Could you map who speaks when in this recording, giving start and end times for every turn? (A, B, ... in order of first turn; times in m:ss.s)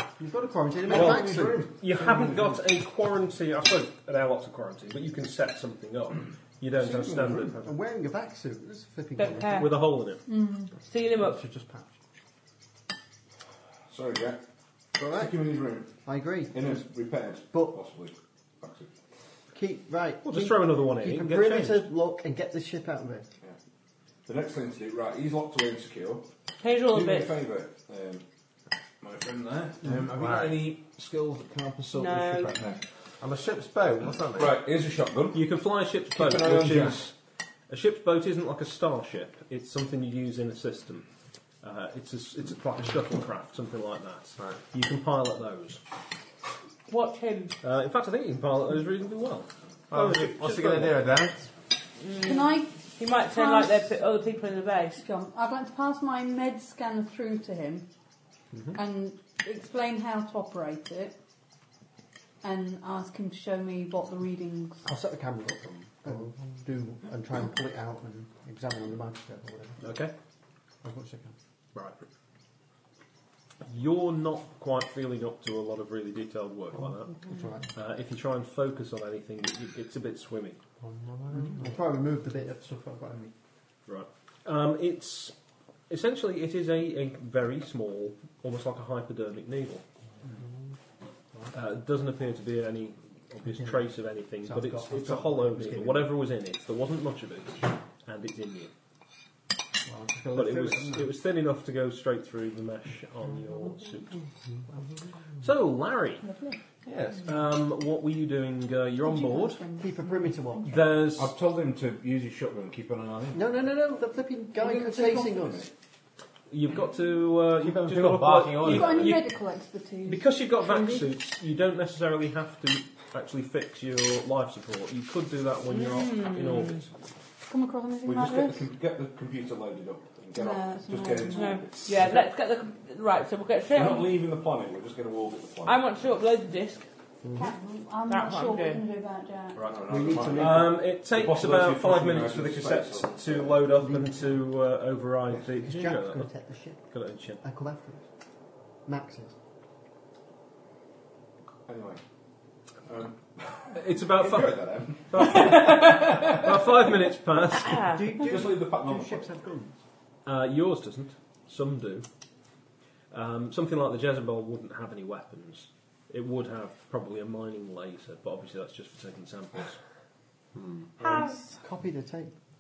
0:00.2-0:01.7 A
0:00.8-0:02.6 B
0:00.9-0:07.8 C
0:06.8-0:07.5 B
0:07.2-0:09.8 A
0:09.2-0:09.8 D
0:09.6-0:10.2 C
0:10.3-0:10.7 E
0:10.9-0:11.4 D
0:11.2-0:11.9 A
0:13.9-0:14.4 B
0:15.0-0:15.4 A
0:15.0-0:15.9 B
0:16.0-0:16.8 A
0:16.5-0:18.9 B
0:19.5-0:23.3 A
0:20.2-0:21.9 C
0:24.3-0:26.3 B
0:26.6-0:27.4 D
0:26.9-0:28.2 B
0:29.0-0:32.8 B
0:29.9-0:30.6 F
0:31.9-0:32.6 D
0:33.2-0:34.6 F
0:34.3-0:35.5 B
0:35.3-0:37.1 C
0:36.2-0:37.1 B
0:37.7-0:41.1 C
0:41.6-0:45.8 C
0:46.9-0:47.6 D
0:47.6-0:51.0 C
0:49.9-0:51.5 F
0:52.0-0:55.0 D
0:52.2-0:52.7 E
0:53.3-0:53.9 E
0:55.0-0:57.9 E
0:58.7-1:01.2 E
1:02.4-1:04.9 E
1:04.8-1:09.8 A
1:09.8-1:10.1 C
1:10.8-1:11.4 A
1:11.8-1:12.0 C
1:13.6-1:17.2 C
1:17.3-1:17.7 A
1:17.8-1:20.6 C
1:21.3-1:23.3 A
1:23.9-1:25.4 C
1:25.9-1:29.8 C
1:31.5-1:38.7 C
1:34.4-1:36.2 A
1:39.8-1:41.1 A
1:40.3-1:44.2 C
1:45.4-1:46.2 C
1:46.2-1:46.6 E
1:46.9-1:47.3 F
1:47.2-1:49.6 C
1:49.0-1:50.7 E
1:49.8-1:50.9 A
1:50.7-1:51.3 C
1:51.1-1:53.4 B
1:53.3-1:55.7 A
1:54.6-1:55.4 E
1:55.2-1:55.7 B
1:56.5-1:59.3 C
1:57.6-1:59.2 F
1:58.6-2:01.1 E
2:00.0-2:06.9 C
2:05.7-2:06.8 D
2:07.5-2:08.6 E
2:08.0-2:12.2 B
2:10.4-2:11.7 E
2:11.3-2:14.1 D
2:13.7-2:15.9 B
2:15.6-2:16.9 D
2:17.2-2:17.5 A
2:17.4-2:19.6 E
2:18.1-2:18.8 D
2:19.6-2:19.8 C
2:19.6-2:23.7 B
2:19.9-2:20.8 A
2:20.3-2:26.3 C
2:23.8-2:24.3 A
2:25.6-2:26.8 A
2:26.9-2:27.4 C
2:27.4-2:28.0 A
2:28.9-2:29.4 A
2:31.7-2:32.0 B
2:32.9-2:36.7 B
2:33.7-2:37.9 C
2:37.6-2:38.1 D
2:37.9-2:39.7 A
2:38.1-2:39.7 B
2:40.3-2:42.1 C
2:43.1-2:49.8 C
2:51.0-2:51.6 D
2:51.0-2:52.3 A